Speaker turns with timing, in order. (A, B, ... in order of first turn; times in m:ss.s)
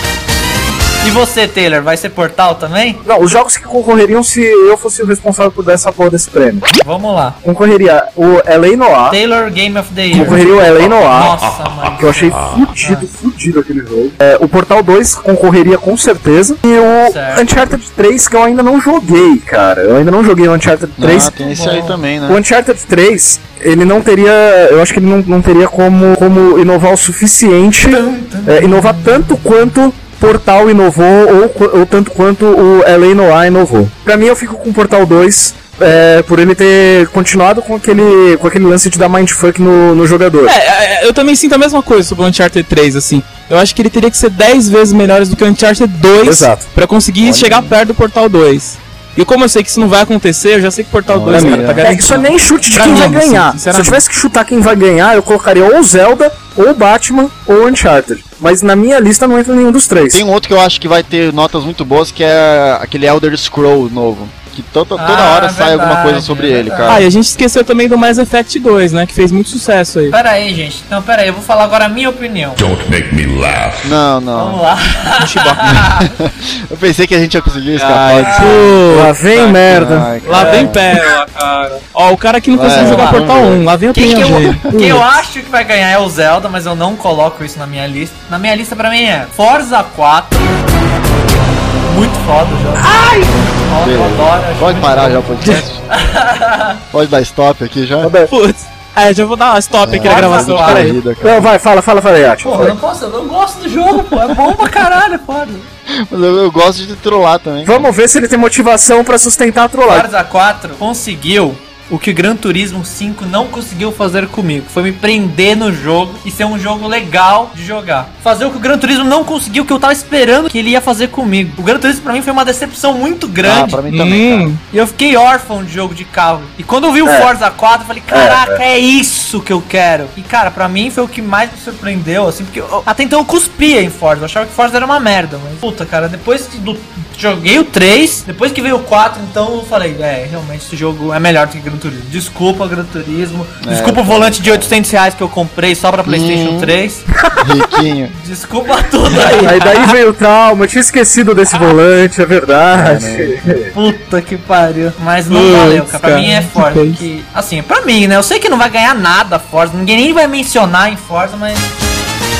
0:01.0-0:03.0 A
0:03.0-0:06.6 B
0:06.8-0:07.4 A
0:07.4-0:09.2 B
0:09.1-0:13.1 A
0:10.1-0:11.4 B
0:10.6-0:12.8 C
0:12.0-0:21.3 B
0:17.0-0:17.6 A
0:21.0-0:22.4 D
0:21.0-0:22.0 A
0:22.3-0:40.6 B
0:27.8-0:29.4 A
0:40.4-0:54.0 E
0:46.2-0:46.6 B
0:47.2-0:47.8 D
0:51.1-0:52.0 D
0:51.3-1:00.2 B
1:00.1-1:07.1 D
1:05.0-1:07.0 A
1:06.9-1:10.2 E
1:10.1-1:12.6 A
1:12.6-1:14.0 C
1:13.8-1:14.6 D
1:14.3-1:16.1 A
1:15.2-1:15.8 E
1:16.0-1:18.8 D
1:17.8-1:19.5 E
1:18.2-1:18.7 A
1:18.9-1:20.4 B
1:19.3-1:21.0 D
1:20.2-1:25.1 E
1:20.3-1:20.6 A
1:22.5-1:23.6 D
1:22.7-1:23.2 A
1:23.9-1:30.6 A
1:31.8-1:36.8 A
1:33.3-1:35.8 D
1:36.9-1:38.1 D
1:38.0-1:38.3 B
1:38.3-1:41.0 E
1:39.8-1:41.5 D
1:40.0-1:41.0 A
1:41.2-1:42.8 B
1:42.4-1:45.7 A
1:45.9-1:47.9 D
1:47.6-1:50.1 B
1:49.9-2:03.8 A
2:03.4-2:04.5 D
2:03.9-2:04.6 E
2:04.7-2:27.0 A
2:07.0-2:07.3 B
2:08.1-2:08.6 B
2:23.6-2:24.7 D
2:26.0-2:26.8 D
2:27.4-2:28.1 D
2:28.1-2:29.7 A
2:29.1-2:29.9 E
2:29.4-2:33.7 B
2:32.7-2:33.6 D
2:33.7-2:41.7 A
2:35.3-2:37.0 E